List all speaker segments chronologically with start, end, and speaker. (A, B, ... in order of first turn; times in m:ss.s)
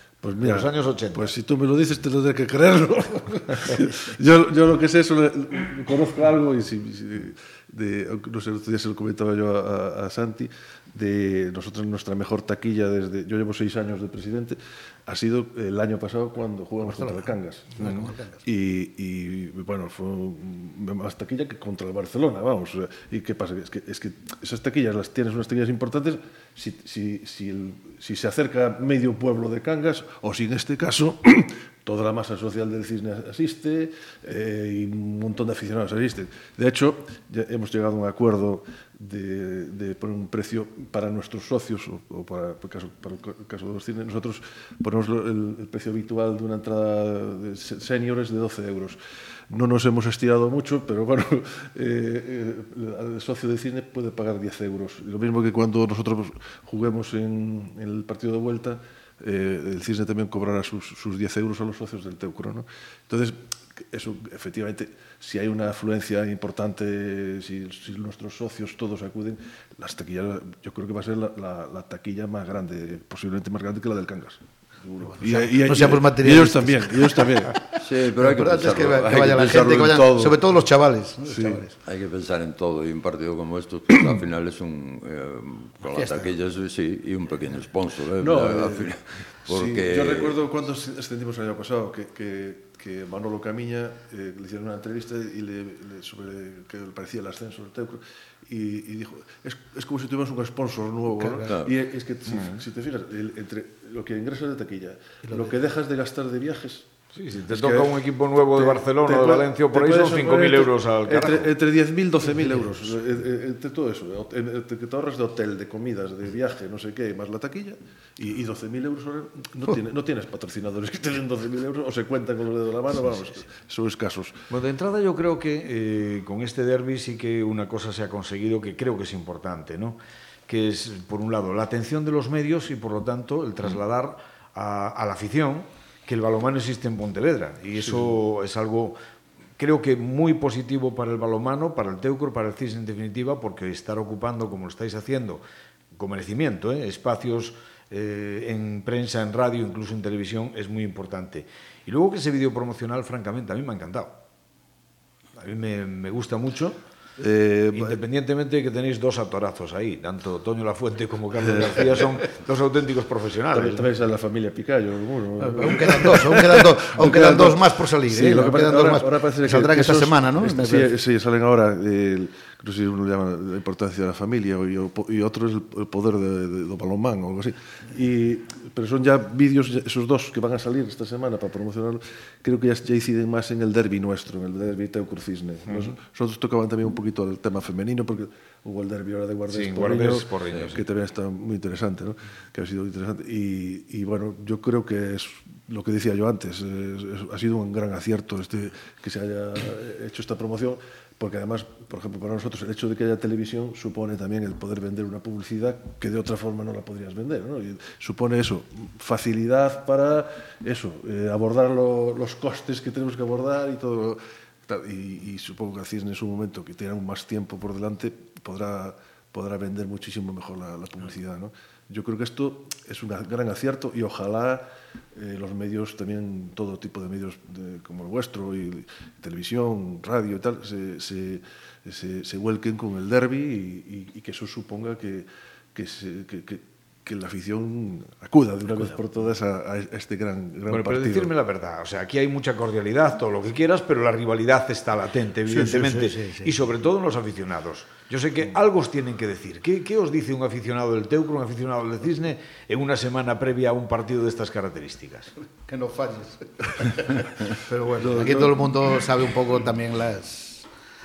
0:00.2-0:49.0 A
0:00.4-0:01.3 B
0:16.8-0:18.4 C
0:49.5-1:17.6 A
1:15.2-1:21.8 C
1:17.8-1:20.4 D
1:21.3-1:21.6 A
1:21.8-1:30.4 D
1:25.8-1:26.3 C
1:28.2-1:28.9 A
1:29.5-1:46.9 A
1:41.2-1:41.5 C
1:41.5-1:41.8 D
1:42.3-1:42.6 B
1:45.3-1:45.5 C
1:47.1-1:51.5 B
1:47.5-2:04.5 A
2:04.5-2:19.0 B
2:19.6-2:25.4 B
2:25.9-2:34.2 B
2:35.4-2:36.8 B
2:37.2-2:38.0 A
2:37.7-2:43.9 B
2:41.4-2:42.2 A
2:43.5-4:01.3 A
2:45.4-2:50.9 C
3:09.5-3:10.8 B
4:00.7-4:15.3 B
4:05.5-4:06.5 C
4:15.7-4:20.7 C
4:18.0-4:18.9 A